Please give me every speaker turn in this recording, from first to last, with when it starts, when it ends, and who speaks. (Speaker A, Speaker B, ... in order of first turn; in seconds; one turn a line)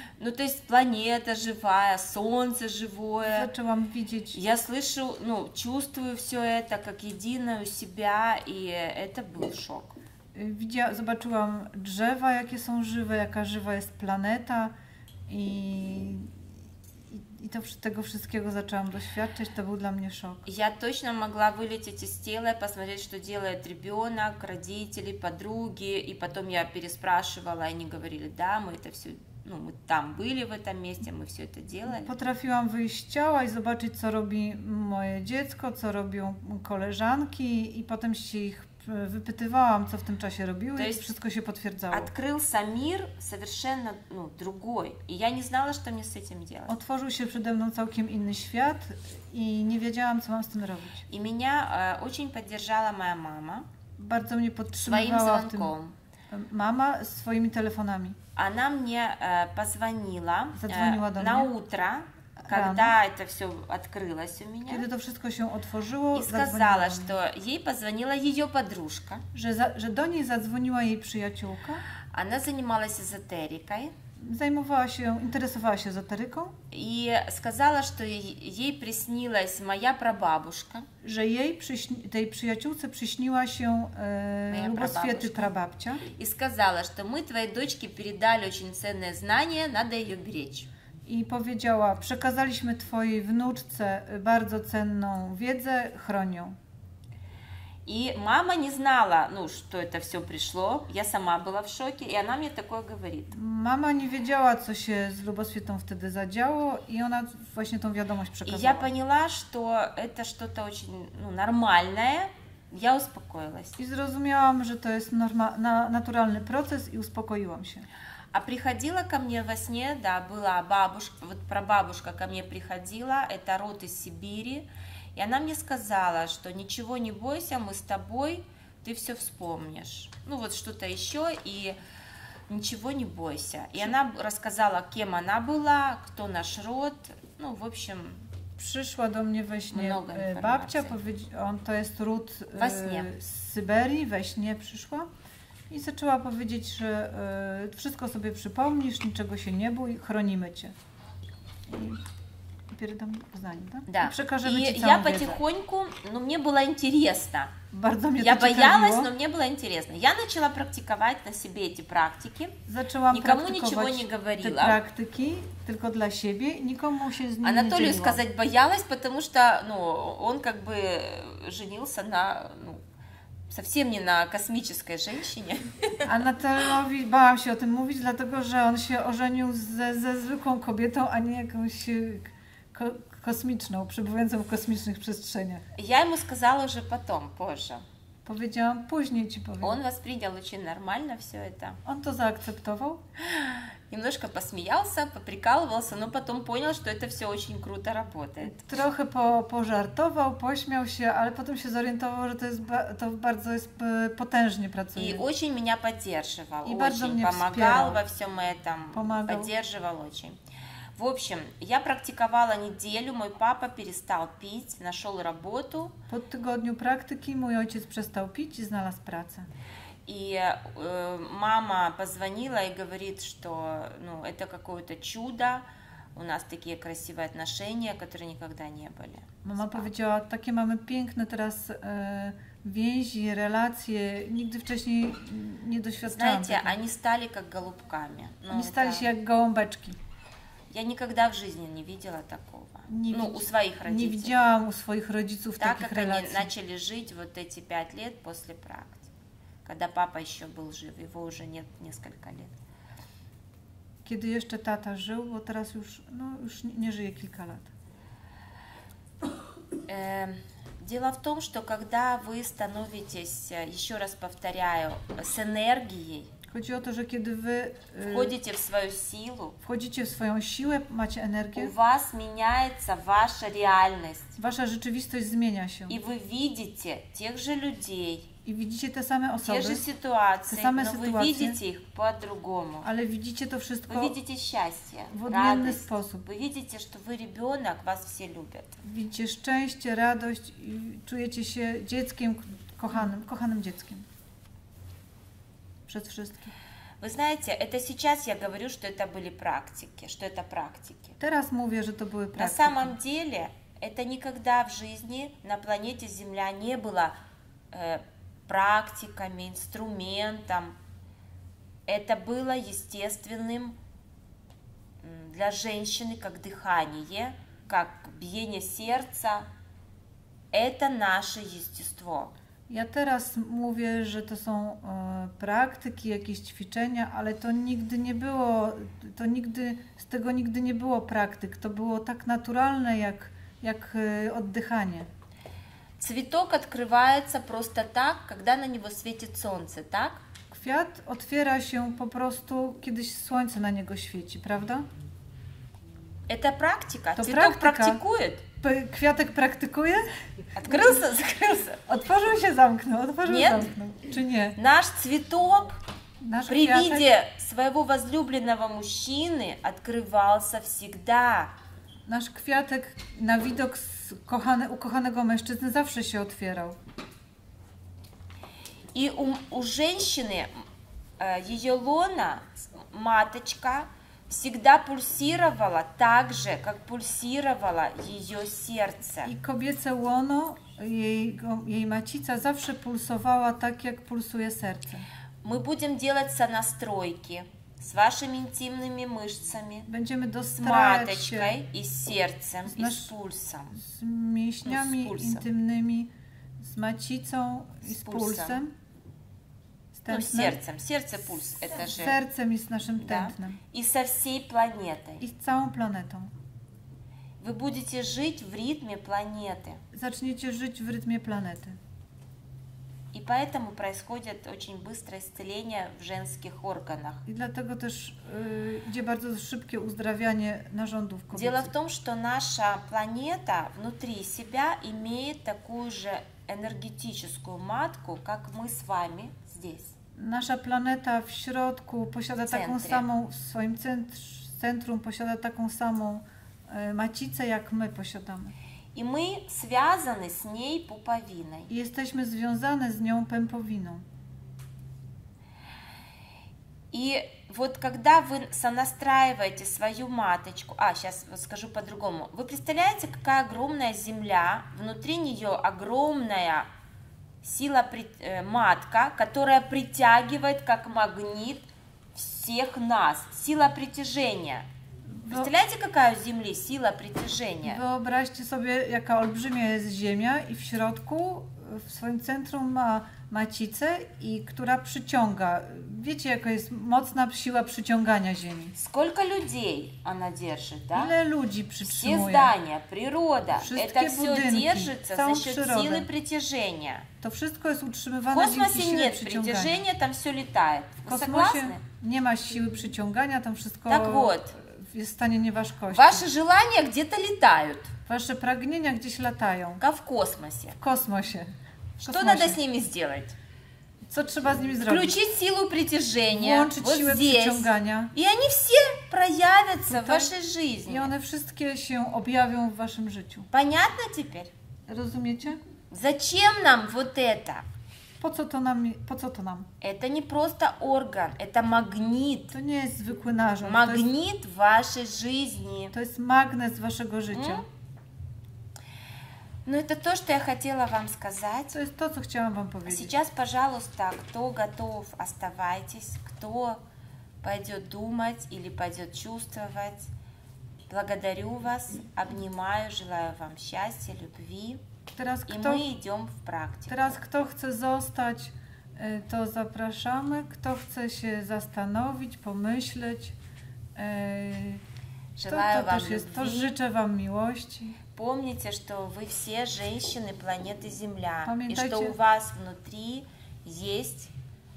Speaker A: 0.2-3.5
Speaker B: 3.2-4.4
Speaker A: 4.3-9.9
Speaker B: 10.3-14.7
Speaker B: 15.3-16.4
Speaker B: 17.1-20.4
Speaker A: 20.4-32.1
Speaker B: 31.9-42.1
Speaker A: 40.8-41.1
Speaker A: 41.9-46.8
Speaker B: 46.7-51.0
Speaker A: 51.1-53.7
Speaker B: 54.0-55.7
Speaker A: 54.8-55.9
Speaker B: 56.3-58.2
Speaker A: 58.4-64.8
Speaker B: 60.5-61.5
Speaker B: 62.4-63.0
Speaker B: 64.7-67.2
Speaker A: 66.1-69.2
Speaker B: 69.3-71.8
Speaker A: 72.1-73.9
Speaker B: 74.2-76.5
Speaker A: 76.7-80.9
Speaker B: 81.0-86.0
Speaker A: 84.5-85.5
Speaker A: 86.1-90.7
Speaker B: 91.0-96.6
Speaker A: 97.8-103.4
Speaker B: 103.3-108.9
Speaker A: 108.4-113.8
Speaker B: 113.8-117.9
Speaker A: 118.3-131.8
Speaker A: 132.5-138.2
Speaker B: 138.6-145.1
Speaker A: 139.7-141.0
Speaker A: 142.5-143.1
Speaker B: 145.7-150.7
Speaker B: 151.7-152.0
Speaker B: 152.7-155.4
Speaker A: 153.9-157.5
Speaker B: 157.7-159.1
Speaker A: 158.2-162.6
Speaker B: 162.7-168.2
Speaker A: 163.1-164.8
Speaker A: 167.4-172.8
Speaker A: 173.5-176.1
Speaker B: 176.1-185.6
Speaker A: 185.7-187.8
Speaker B: 188.2-189.8
Speaker A: 189.6-191.8
Speaker B: 191.8-193.0
Speaker A: 193.2-198.7
Speaker B: 198.4-205.2
Speaker A: 204.9-210.4
Speaker B: 206.6-208.0
Speaker B: 208.9-209.5
Speaker A: 210.9-215.9
Speaker B: 216.1-219.5
Speaker A: 220.1-229.9
Speaker B: 229.4-236.8
Speaker A: 236.0-239.1
Speaker B: 238.5-240.0
Speaker A: 240.7-244.4
Speaker B: 242.9-246.5
Speaker A: 245.6-249.1
Speaker A: 249.6-252.5
Speaker B: 254.0-257.7
Speaker A: 259.9-266.3
Speaker B: 266.5-268.4
Speaker A: 268.0-269.6
Speaker B: 269.6-271.7
Speaker A: 271.5-274.4
Speaker B: 274.4-276.0
Speaker A: 275.9-278.3
Speaker B: 278.4-279.8
Speaker A: 279.4-282.9
Speaker B: 280.5-281.6
Speaker B: 282.8-284.1
Speaker A: 283.9-288.8
Speaker B: 285.1-286.3
Speaker B: 288.8-294.1
Speaker B: 295.9-296.5
Speaker A: 297.0-301.2
Speaker B: 301.2-302.9
Speaker A: 302.4-307.2
Speaker A: 307.7-310.8
Speaker A: 311.9-313.8
Speaker A: 315.0-319.5
Speaker A: 320.5-322.3
Speaker B: 322.7-335.1
Speaker A: 336.0-340.2
Speaker B: 340.5-344.9
Speaker A: 346.3-348.4
Speaker B: 347.1-348.0
Speaker B: 348.6-350.1
Speaker A: 350.5-351.8
Speaker B: 350.6-351.0
Speaker B: 351.9-354.6
Speaker A: 353.2-353.7
Speaker A: 354.6-355.8
Speaker B: 356.2-357.1
Speaker A: 356.5-361.5
Speaker B: 362.1-366.8
Speaker A: 368.9-370.5
Speaker A: 371.2-379.3
Speaker B: 379.2-385.1
Speaker A: 385.4-389.9
Speaker B: 389.9-391.6
Speaker A: 390.6-393.8
Speaker B: 392.6-393.1
Speaker B: 393.7-398.7
Speaker A: 394.6-395.4
Speaker A: 397.8-398.6
Speaker B: 399.9-400.6
Speaker A: 400.1-402.2
Speaker B: 401.6-403.6
Speaker A: 403.0-405.2
Speaker B: 405.2-406.3
Speaker A: 407.4-409.8
Speaker B: 409.9-411.8
Speaker A: 413.1-417.2
Speaker B: 417.2-421.7
Speaker A: 421.3-429.9
Speaker B: 430.1-438.5
Speaker A: 432.4-433.1
Speaker A: 438.9-441.7
Speaker B: 441.7-444.1
Speaker A: 446.9-456.7
Speaker A: 457.4-464.7
Speaker B: 465.1-465.5
Speaker A: 465.3-467.8
Speaker B: 467.6-478.7
Speaker A: 478.7-481.1
Speaker B: 480.9-482.5
Speaker A: 481.8-487.1
Speaker B: 483.6-486.1
Speaker B: 487.2-489.8
Speaker A: 488.3-491.8
Speaker B: 491.1-496.2
Speaker A: 493.9-494.5
Speaker A: 495.9-497.9
Speaker B: 498.1-499.8
Speaker A: 499.8-500.8
Speaker B: 500.8-501.5
Speaker A: 502.0-503.4
Speaker B: 502.1-502.6
Speaker B: 504.1-505.2
Speaker A: 504.9-511.1
Speaker B: 506.3-508.1
Speaker B: 509.9-510.3
Speaker B: 510.9-513.5
Speaker A: 513.5-514.5
Speaker B: 514.9-515.6
Speaker A: 515.9-517.7
Speaker B: 518.2-519.7
Speaker A: 519.8-522.5
Speaker B: 522.5-524.1
Speaker A: 523.6-525.9
Speaker B: 525.9-527.6
Speaker A: 527.3-527.6
Speaker A: 529.6-531.8
Speaker B: 531.7-533.1
Speaker A: 532.9-536.8
Speaker A: 537.4-540.1
Speaker A: 540.9-544.8
Speaker B: 545.1-545.9
Speaker A: 545.5-547.2
Speaker B: 546.9-553.4
Speaker B: 554.0-554.8
Speaker A: 555.4-556.8
Speaker B: 555.5-558.0
Speaker A: 558.1-564.3
Speaker B: 561.4-562.2